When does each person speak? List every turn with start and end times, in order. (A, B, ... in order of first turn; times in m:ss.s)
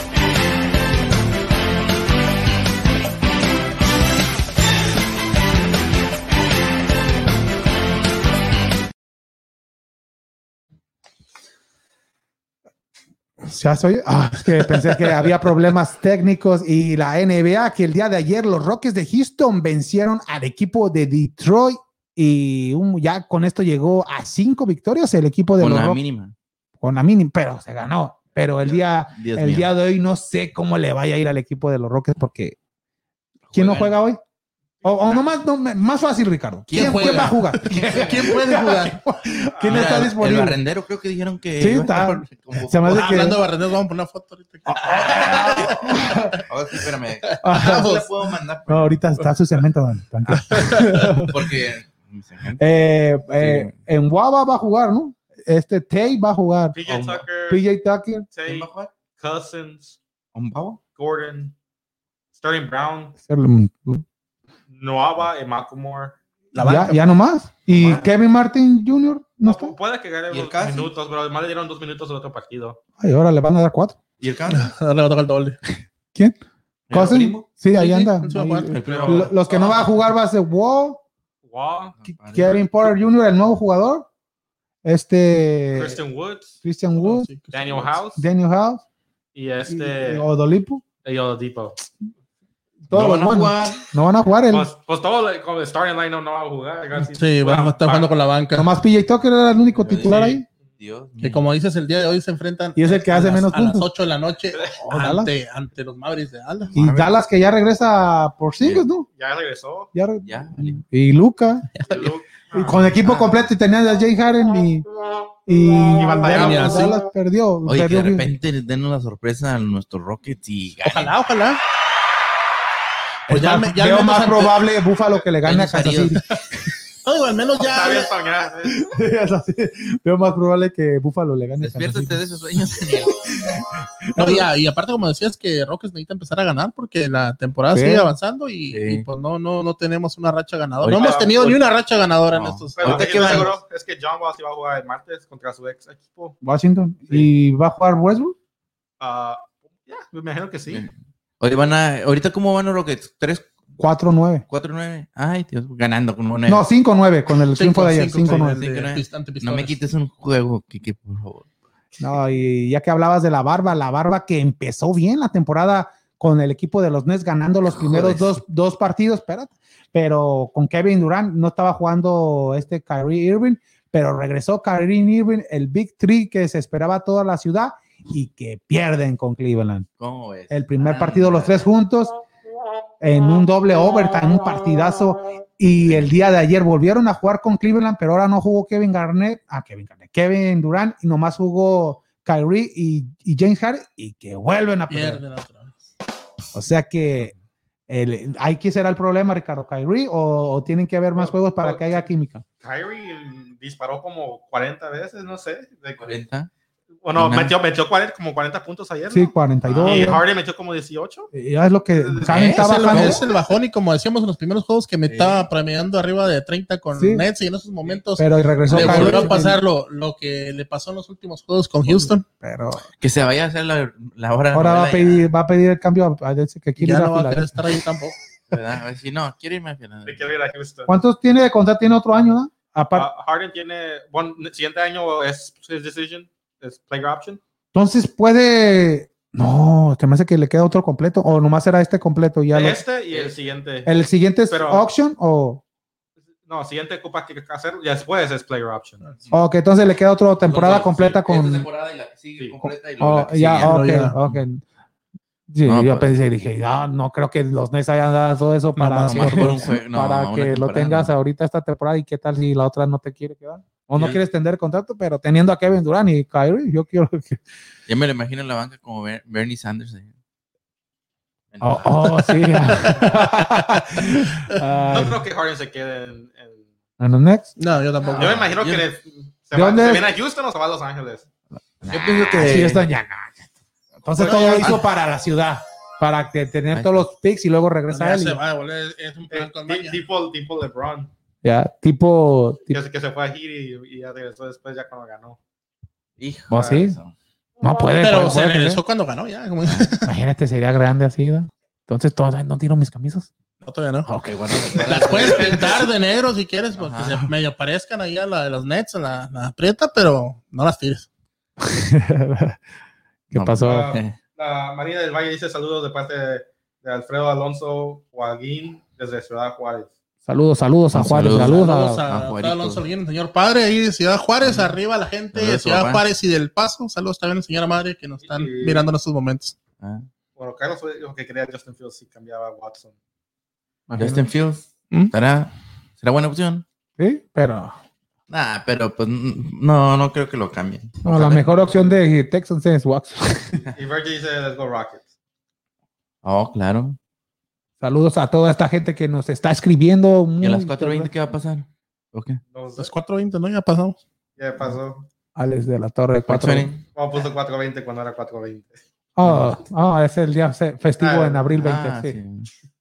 0:13.4-0:26.0 A
0:25.6-0:26.4 B
0:26.8-0:32.6 A
0:29.1-0:29.7 B
0:33.5-0:34.0 B
0:33.5-0:34.2 A
0:34.8-0:40.6 A
0:36.7-0:37.4 B
0:36.7-0:39.0 C
0:39.5-0:40.1 D
0:39.6-0:43.2 B
0:41.6-0:43.4 A
0:42.9-0:46.4 C
0:44.7-0:46.4 A
0:44.8-0:49.0 B
0:47.4-0:48.3 C
0:47.4-0:47.9 A
0:48.7-0:51.5 A
0:50.5-0:51.1 C
0:51.1-0:52.6 B
0:52.6-0:58.3 A
0:53.4-0:53.8 B
0:56.8-0:57.6 D
0:58.3-1:00.0 D
0:58.4-0:58.9 B
1:00.3-1:00.8 B
1:01.0-1:01.5 D
1:02.4-1:03.2 D
1:03.2-1:04.0 A
1:04.7-1:06.2 D
1:06.5-1:07.1 C
1:06.6-1:09.8 A
1:07.7-1:08.0 B
1:09.4-1:12.8 D
1:10.3-1:10.9 B
1:13.0-1:14.0 A
1:14.2-1:14.7 B
1:14.5-1:15.6 C
1:16.9-1:17.5 B
1:16.9-1:21.0 A
1:17.7-1:19.3 C
1:18.7-1:19.9 D
1:18.8-1:19.3 B
1:21.5-1:22.0 D
1:22.0-1:22.6 B
1:22.1-1:24.1 A
1:24.8-1:26.0 A
1:25.7-1:26.6 D
1:26.6-1:27.3 A
1:27.0-1:28.0 C
1:27.5-1:28.2 D
1:28.2-1:28.8 A
1:29.3-1:30.3 D
1:29.7-1:30.8 A
1:31.0-1:31.8 D
1:32.9-1:34.7 A
1:32.9-1:33.9 B
1:34.5-1:38.1 D
1:37.0-1:38.7 C
1:38.6-1:40.5 A
1:39.8-1:41.4 B
1:41.2-1:46.7 C
1:42.8-1:43.9 A
1:44.8-1:45.3 A
1:46.7-1:47.2 B
1:46.8-1:49.1 A
1:48.6-1:48.9 B
1:49.1-1:49.9 D
1:49.9-1:51.7 A
1:50.2-1:50.8 B
1:51.8-1:52.1 B
1:51.8-1:53.0 D
1:52.5-1:54.9 A
1:53.0-1:53.5 B
1:55.5-1:58.3 A
1:55.9-1:56.9 D
1:56.2-1:57.0 C
1:57.6-2:01.1 B
2:00.9-2:01.6 C
2:03.3-2:04.6 C
2:03.3-2:06.4 A
2:05.4-2:06.2 B
2:07.0-2:08.1 C
2:07.6-2:08.8 D
2:08.7-2:12.2 A
2:11.6-2:13.2 B
2:13.1-2:14.5 A
2:14.1-2:23.5 C
2:17.7-2:18.1 A
2:18.7-2:19.0 B
2:20.8-2:21.2 B
2:20.9-2:21.7 D
2:22.3-2:23.5 B
2:22.8-2:26.4 D
2:26.4-2:28.4 A
2:29.0-2:30.8 D
2:30.7-2:33.5 B
2:33.8-2:34.4 A
2:34.5-2:36.6 B
2:36.5-2:38.6 A
2:37.5-2:39.8 C
2:38.6-2:41.5 B
2:42.0-2:59.9 A
2:47.7-2:48.4 B
3:00.0-3:01.6 B
3:00.5-3:02.2 A
3:03.0-3:15.2 A
3:14.9-3:15.8 C
3:16.6-3:17.3 A
3:17.9-3:22.4 A
3:21.2-3:22.0 D
3:22.6-3:26.1 D
3:26.0-3:26.5 B
3:27.0-3:31.3 D
3:27.2-3:27.6 B
3:29.1-3:30.2 A
3:29.6-3:30.1 B
3:31.3-3:33.2 A
3:32.0-3:32.4 D
3:32.3-3:33.2 B
3:32.4-3:42.3 C
3:35.1-3:35.4 B
3:37.0-3:37.3 A
3:38.2-3:39.6 A
3:38.7-3:39.4 B
3:42.4-3:42.9 A
3:43.0-3:45.3 B
3:44.5-3:47.8 A
3:46.8-3:48.2 C
3:48.5-3:50.3 B
3:50.1-3:51.0 D
3:50.9-3:53.1 A
3:52.9-3:57.4 D
3:57.7-4:02.8 A
4:02.5-4:03.9 D
4:03.1-4:03.4 B
4:03.9-4:05.6 A
4:04.5-4:04.9 D
4:06.4-4:09.1 D
4:09.3-4:11.7 A
4:10.5-4:14.4 B
4:12.6-4:14.6 A
4:13.6-4:14.2 C
4:15.5-4:27.4 A
4:15.6-4:16.2 B
4:18.8-4:19.7 C
4:19.0-4:21.1 B
4:24.0-4:24.2 B
4:27.9-4:30.1 B
4:31.5-4:32.7 B
4:31.6-4:35.2 A
4:34.8-4:36.6 D
4:37.0-4:37.5 A
4:37.6-4:38.5 C
4:38.0-4:38.9 B
4:38.2-4:41.2 D
4:39.5-4:40.1 A
4:41.8-4:43.5 A
4:41.9-4:42.9 B
4:44.0-4:48.4 A
4:44.2-4:44.8 C
4:44.2-4:44.5 D
4:47.9-4:50.0 C
4:49.3-4:51.1 D
4:51.4-4:52.8 A
4:52.7-4:55.4 D
4:56.2-4:57.1 B
4:56.5-4:57.0 A
4:56.6-4:56.8 D
4:57.6-4:58.8 A
4:58.0-5:00.1 C
5:00.1-5:03.3 A
5:03.6-5:04.1 C
5:04.1-5:05.2 A
5:04.5-5:05.7 B
5:04.7-5:05.9 D
5:04.8-5:11.1 C
5:06.8-5:07.3 B
5:11.6-5:12.6 A
5:13.3-5:14.0 A
5:13.3-5:14.2 B
5:13.6-5:19.9 D
5:20.3-5:22.0 A
5:20.9-5:22.8 B
5:21.2-5:29.6 C
5:24.4-5:24.8 B
5:25.3-5:26.0 B
5:28.2-5:28.9 D
5:29.8-5:30.1 B
5:30.4-5:32.9 D
5:33.9-5:34.3 A
5:34.0-5:36.6 B
5:37.0-5:37.8 A
5:38.3-5:41.5 B
5:41.0-5:43.6 A
5:43.7-5:45.0 D
5:46.2-5:47.0 B
5:47.8-5:51.1 A
5:50.4-5:52.4 B
5:52.5-5:52.9 D
5:52.8-5:54.0 C
5:54.4-5:55.1 D
5:55.4-5:56.7 A
5:56.3-5:56.8 B
5:56.9-5:58.8 D
5:59.2-6:02.2 A
5:59.2-5:59.5 B
6:01.0-6:01.5 D
6:01.6-6:02.5 B